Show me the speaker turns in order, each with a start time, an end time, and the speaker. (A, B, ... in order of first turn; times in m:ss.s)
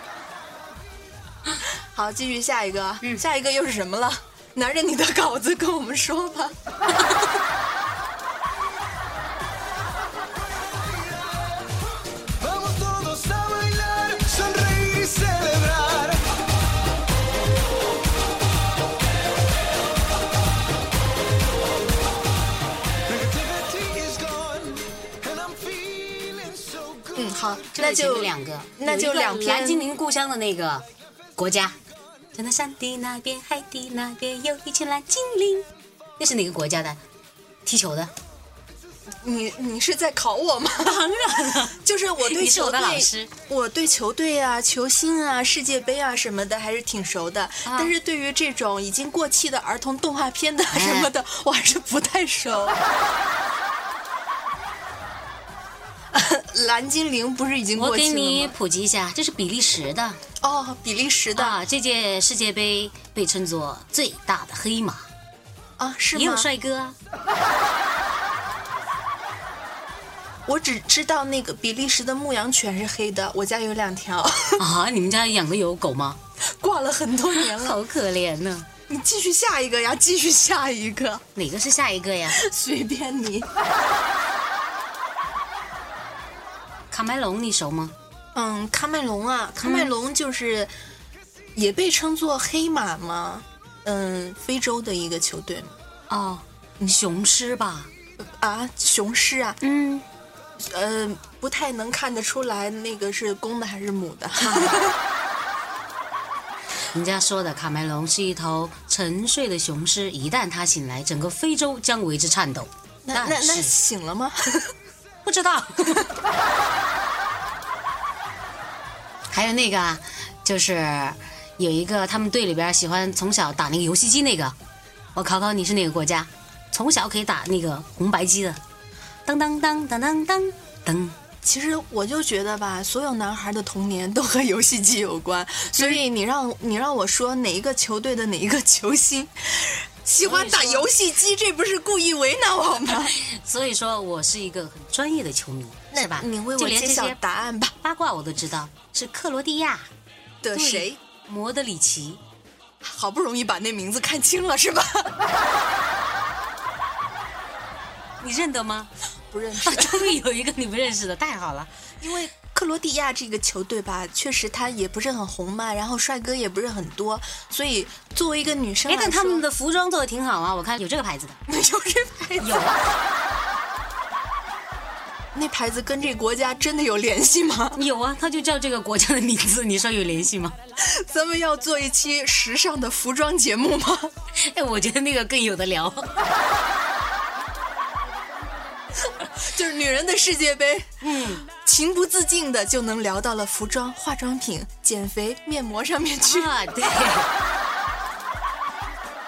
0:01.9-0:06.5 A
0:12.4-0:16.2 B
0:23.1-0:27.0 B
0:27.1-0:29.9 A
0:27.7-0:30.8 C
0:31.4-0:31.8 C
0:32.3-0:35.7 C
0:36.2-0:37.0 C
0:37.6-0:38.1 C
0:39.2-0:41.0 A
0:40.8-0:43.3 C
0:41.6-0:52.8 A
0:47.6-0:47.9 C
0:50.7-0:51.1 C
0:56.1-0:58.5 A
0:57.7-1:00.2 C
1:00.4-1:01.6 A
1:01.3-1:05.1 C
1:05.8-1:06.5 A
1:06.1-1:07.0 C
1:10.4-1:14.6 A
1:14.6-1:16.2 C
1:16.6-1:17.8 A
1:17.3-1:18.7 C
1:18.9-1:21.2 A
1:21.3-1:22.4 C
1:22.3-1:23.5 A
1:26.9-1:27.9 C
1:28.3-1:30.7 A
1:29.6-1:29.9 C
1:31.6-1:35.8 A
1:36.1-1:37.9 C
1:38.2-1:39.6 A
1:39.6-1:40.0 C
1:40.6-1:45.0 A
1:44.4-1:44.8 C
1:46.9-1:53.7 C
1:53.0-1:54.7 A
1:55.2-1:56.0 C
1:59.3-2:04.6 C
2:05.1-2:08.6 C
2:09.2-2:11.2 C
2:11.4-2:23.2 A
2:15.7-2:16.0 C
2:20.2-2:20.9 C
2:22.9-2:27.2 C
2:25.9-2:27.7 A
2:27.8-2:29.9 C
2:30.4-2:31.0 A
2:30.5-2:32.2 C
2:32.8-2:35.1 A
2:38.2-2:38.9 C
2:39.3-2:40.2 A
2:39.6-2:41.7 C
2:42.0-2:49.4 A
2:48.9-2:51.4 C
2:51.5-2:52.7 A
2:52.4-2:52.8 C
2:55.3-2:57.8 A
2:57.7-3:00.5 C
3:00.8-3:04.1 A
3:04.4-3:06.1 C
3:09.2-3:10.9 A
3:11.0-3:11.4 C
3:11.4-3:16.5 A
3:16.2-3:17.3 C